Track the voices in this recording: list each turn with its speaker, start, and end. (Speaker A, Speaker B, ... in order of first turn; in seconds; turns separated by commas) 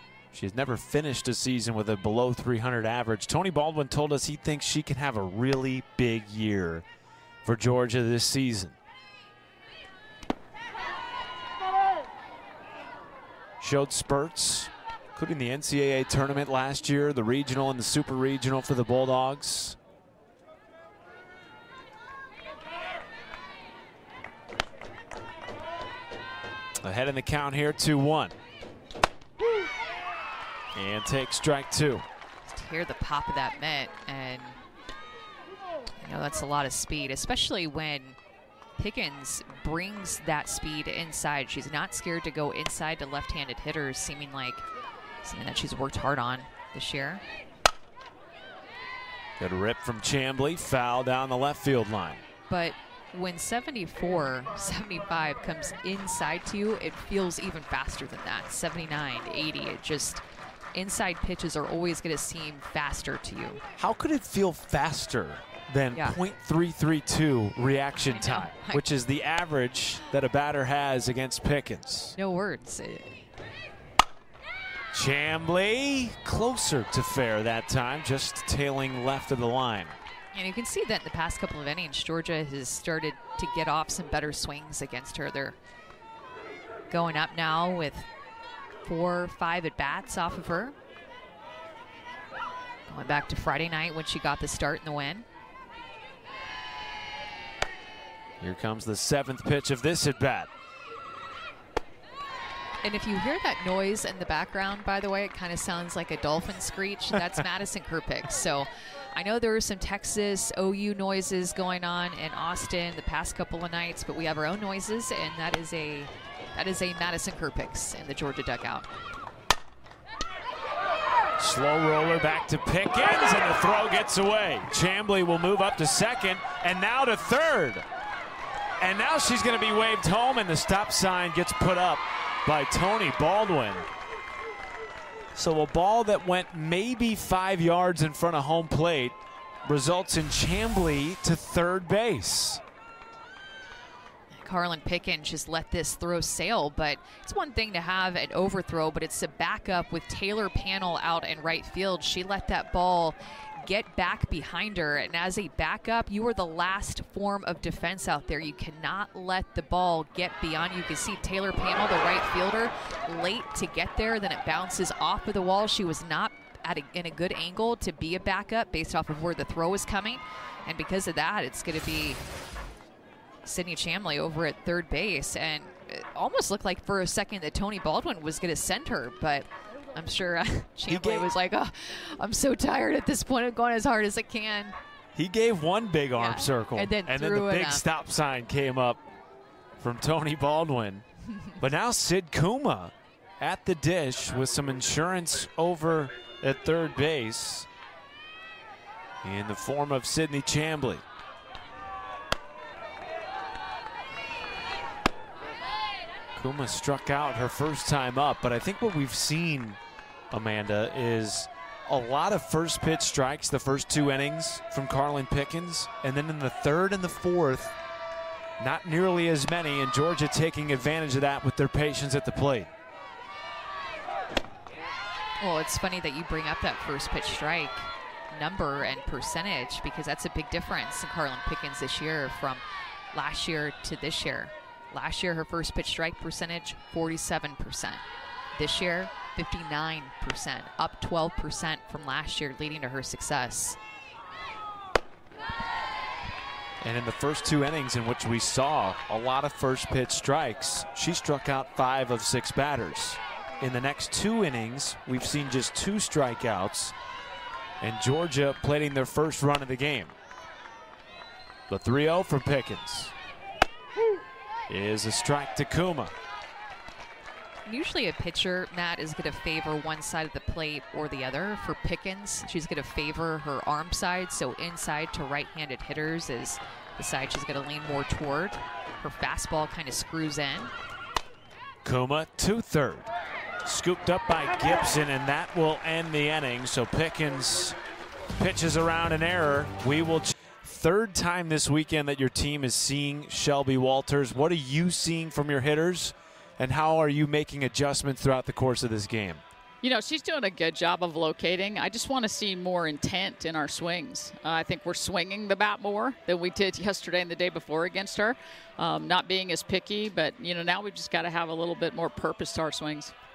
Speaker A: 0.3-6.8, Speaker A: 7.4-8.8, Speaker A: 13.6-19.8, Speaker A: 26.8-28.4, Speaker A: 30.7-32.1, Speaker B: 32.5-34.6, Speaker B: 36.0-38.2, Speaker B: 38.8-44.6, Speaker B: 45.2-47.2, Speaker A: 49.4-52.2, Speaker B: 52.5-60.2, Speaker B: 60.8-63.6, Speaker A: 63.8-72.2, Speaker B: 68.0-68.8, Speaker B: 72.2-73.2, Speaker A: 74.9-80.0, Speaker B: 80.3-85.6, Speaker B: 86.9-88.1, Speaker B: 88.8-90.8, Speaker B: 92.9-95.3, Speaker A: 98.4-100.5, Speaker B: 102.8-118.9, Speaker A: 121.4-127.8, Speaker A: 128.8-133.9, Speaker A: 135.3-142.6, Speaker B: 144.3-172.2, Speaker B: 173.4-184.8, Speaker A: 180.9-181.3, Speaker A: 185.2-189.0, Speaker B: 186.2-187.8, Speaker A: 189.8-191.1, Speaker A: 191.6-197.7, Speaker A: 199.2-201.0, Speaker A: 206.4-209.8, Speaker A: 210.3-217.8, Speaker A: 218.6-222.7, Speaker B: 225.4-238.0, Speaker B: 238.5-243.8, Speaker A: 246.8-256.9, Speaker A: 257.8-260.1, Speaker A: 261.7-263.1, Speaker A: 264.7-266.1, Speaker B: 267.7-280.7, Speaker A: 281.8-283.1, Speaker A: 283.6-287.8, Speaker A: 288.4-299.4, Speaker C: 299.8-313.1